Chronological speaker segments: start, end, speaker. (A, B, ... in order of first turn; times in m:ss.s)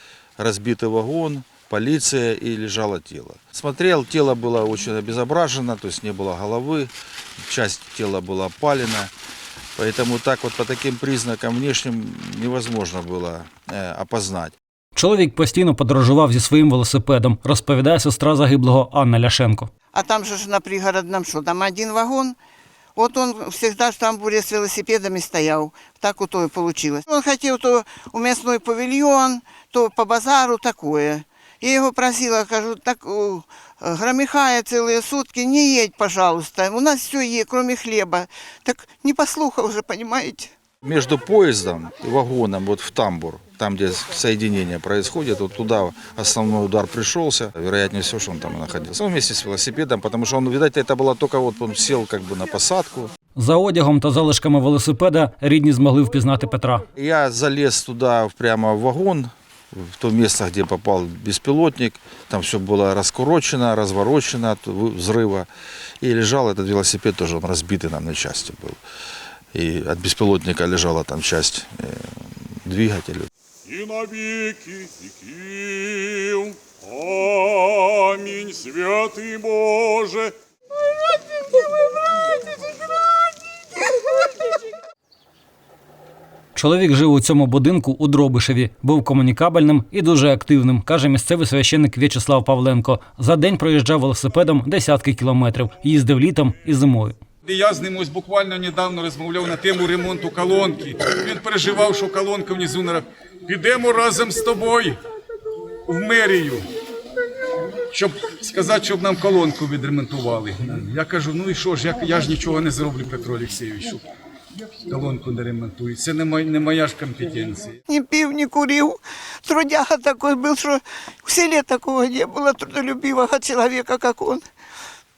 0:00.4-0:06.9 A
0:07.4-0:09.1 A
0:09.8-0:14.6 A
0:15.0-0:19.7 B
0:19.9-0:22.4 C
0:23.0-0:40.5 C
0:40.8-0:53.1 A
0:53.4-0:56.9 B
0:57.0-1:05.5 A
1:06.0-1:08.8 A
1:09.5-1:13.3 A
1:13.7-1:20.4 D
1:26.6-1:37.2 B
1:37.4-1:45.0 E
1:45.9-1:46.7 E
1:47.9-1:54.0 E
1:54.8-1:57.8 E
1:57.9-2:04.4 C